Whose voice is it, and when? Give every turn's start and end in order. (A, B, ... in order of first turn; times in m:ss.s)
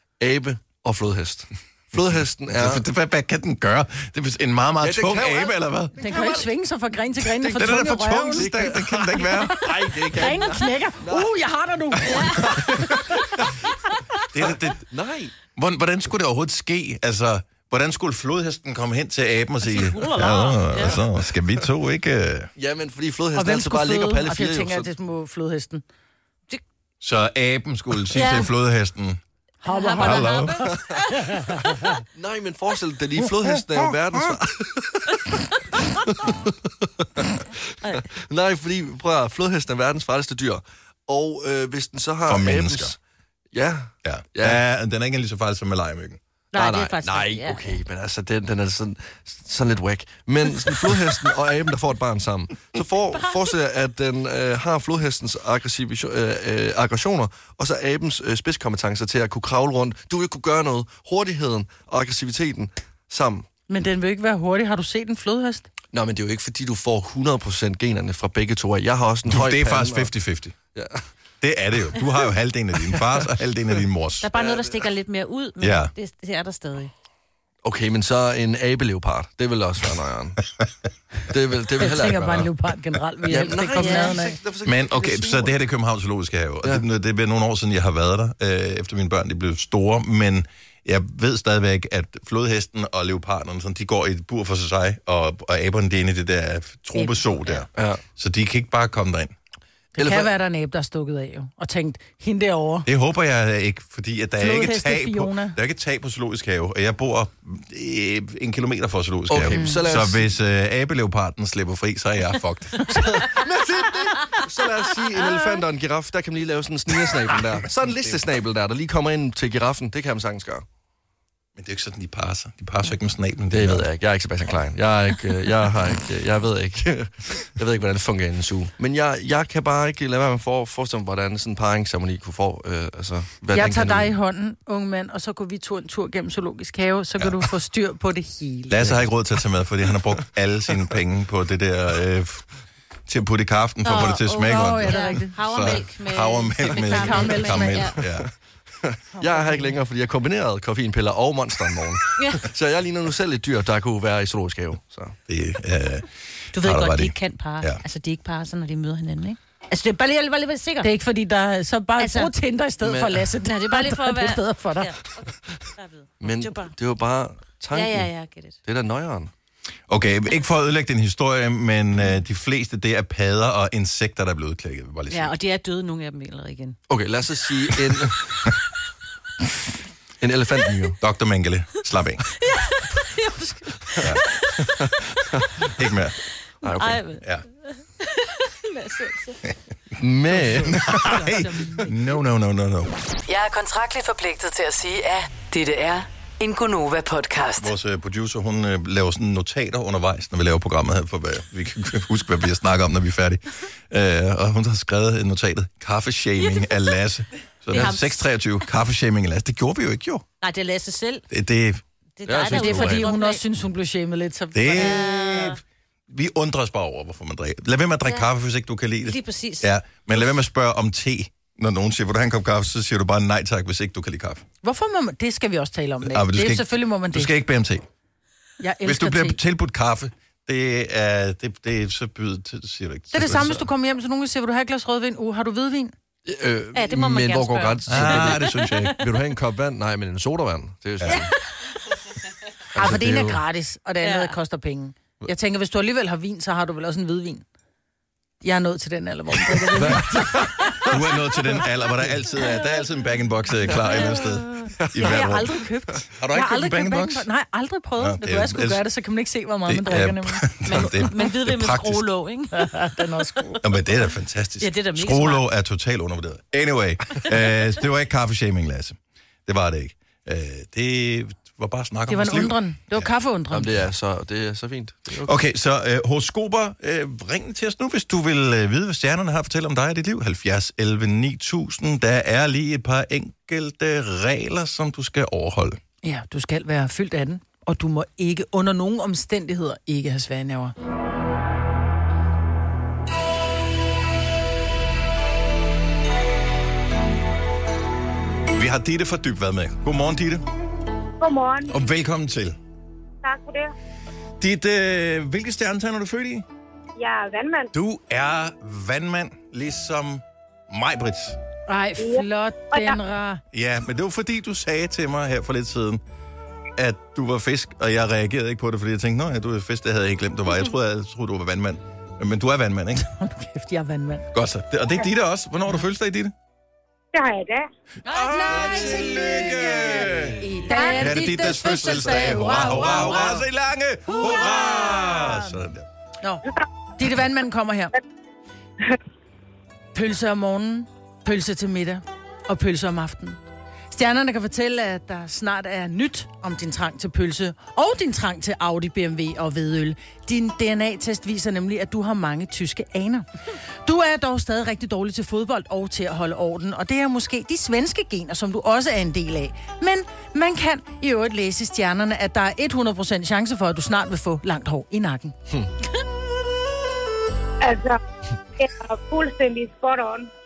0:00.2-0:02.8 A
0:02.5-0:06.4 B
0:04.8-0:05.6 A
0:06.0-0:08.8 C
0:07.2-0:10.1 B
0:08.3-0:11.4 A
0:09.4-0:13.3 C
0:12.1-0:12.8 B
0:12.4-0:13.6 A
0:14.3-0:14.9 B
0:14.4-0:15.3 A
0:15.4-0:22.5 B
0:19.6-0:21.0 D
0:22.6-0:24.9 A
0:23.3-0:25.8 C
0:27.0-0:29.2 B
0:28.1-0:28.5 D
0:29.6-0:30.7 C
0:29.6-0:31.8 D
0:30.0-0:30.6 B
0:31.3-0:32.0 C
0:32.1-0:43.0 A
0:42.2-0:42.9 B
0:43.5-0:44.6 A
0:44.0-0:46.2 B
0:46.5-0:47.8 D
0:46.5-1:03.5 A
1:03.7-1:05.7 C
1:05.9-1:10.1 A
1:09.2-1:10.5 B
1:10.7-1:11.1 A
1:11.4-1:14.3 B
1:14.2-1:16.9 D
1:14.3-1:14.8 A
1:15.6-1:15.9 B
1:17.6-1:20.4 A
1:21.3-1:22.5 A
1:21.8-1:24.4 C
1:23.2-1:25.6 A
1:23.4-1:24.2 D
1:24.6-1:39.3 B
1:36.9-1:37.6 C
1:37.7-1:38.0 A
1:39.9-1:42.9 C
1:40.0-1:40.3 A
1:42.8-1:53.0 B
1:44.4-1:45.6 C
1:49.3-1:50.3 A
1:49.5-1:49.8 C
1:52.9-2:00.6 A
1:57.7-1:58.3 B
2:01.6-2:03.9 B
2:03.5-2:14.1 A
2:13.5-2:19.1 C
2:18.7-2:22.4 B
2:23.1-2:28.3 B
2:23.8-2:28.0 D
2:24.4-2:25.4 C
2:26.7-2:27.9 C
2:28.8-2:35.2 A
2:29.1-2:29.8 C
2:35.3-2:37.8 B
2:36.5-2:40.9 D
2:40.8-2:44.9 C
2:42.0-2:42.3 D
2:42.8-2:43.4 A
2:43.4-2:46.7 D
2:46.2-2:48.1 A
2:47.7-2:48.6 D
2:48.6-2:49.3 A
2:49.9-2:55.3 B
2:55.1-2:56.8 D
2:56.9-2:58.5 A
3:00.2-3:01.0 A
3:01.0-3:02.2 B
3:02.4-3:04.6 D
3:04.6-3:05.7 A
3:05.8-3:06.2 B
3:06.6-3:07.0 A
3:06.6-3:09.4 D
3:10.0-3:10.8 A
3:10.6-3:12.9 B
3:10.8-3:11.9 C
3:13.3-3:17.7 E
3:17.6-3:30.2 B
3:26.4-3:27.0 D
3:27.7-3:28.3 D
3:30.4-3:31.2 D
3:31.3-3:31.8 B
3:32.2-3:33.4 D
3:32.2-3:33.1 A
3:32.5-3:35.5 C
3:34.5-3:44.4 B
3:34.8-3:35.6 D
3:39.0-3:39.7 D
3:44.6-3:47.3 C
3:46.0-3:47.8 B
3:48.6-3:49.4 C
3:48.8-3:53.7 B
3:53.1-3:55.9 C
3:56.2-3:58.4 A
3:56.7-3:58.9 D
3:57.9-3:59.0 B
3:58.9-4:01.3 A
4:01.0-4:01.3 B
4:02.7-4:03.4 A
4:02.7-4:07.4 C
4:04.0-4:04.4 D
4:08.4-4:10.9 C
4:09.7-4:11.1 A
4:10.9-4:17.3 B
4:14.8-4:15.4 A
4:15.0-4:20.5 C
4:18.0-4:18.8 B
4:19.6-4:22.0 B
4:20.6-4:23.0 D
4:22.5-4:23.6 C
4:23.6-4:33.1 B
4:24.6-4:25.4 D
4:32.1-4:33.8 C
4:33.5-4:35.4 A
4:35.2-4:45.8 B
4:46.0-4:50.7 C
4:58.5-5:00.4 B
5:01.2-5:01.7 F
5:01.7-5:02.6 B
5:03.2-5:03.7 F
5:04.4-5:06.4 B
5:07.0-5:07.7 F
5:07.7-5:11.4 B
5:11.7-5:13.4 C
5:12.0-5:13.0 F
5:13.5-5:16.0 B
5:16.8-5:23.0 B
5:23.0-5:24.2 C
5:24.3-5:26.3 B
5:27.1-5:27.6 F
5:28.0-5:33.4 C
5:28.1-5:35.8 B
5:30.1-5:33.3 A
5:30.7-5:31.1 F
5:34.1-5:35.6 C
5:37.0-5:38.0 C
5:39.9-5:43.4 C
5:43.9-5:53.2 C
5:53.8-6:05.3 C
6:07.6-6:08.0 F
6:08.6-6:10.3 F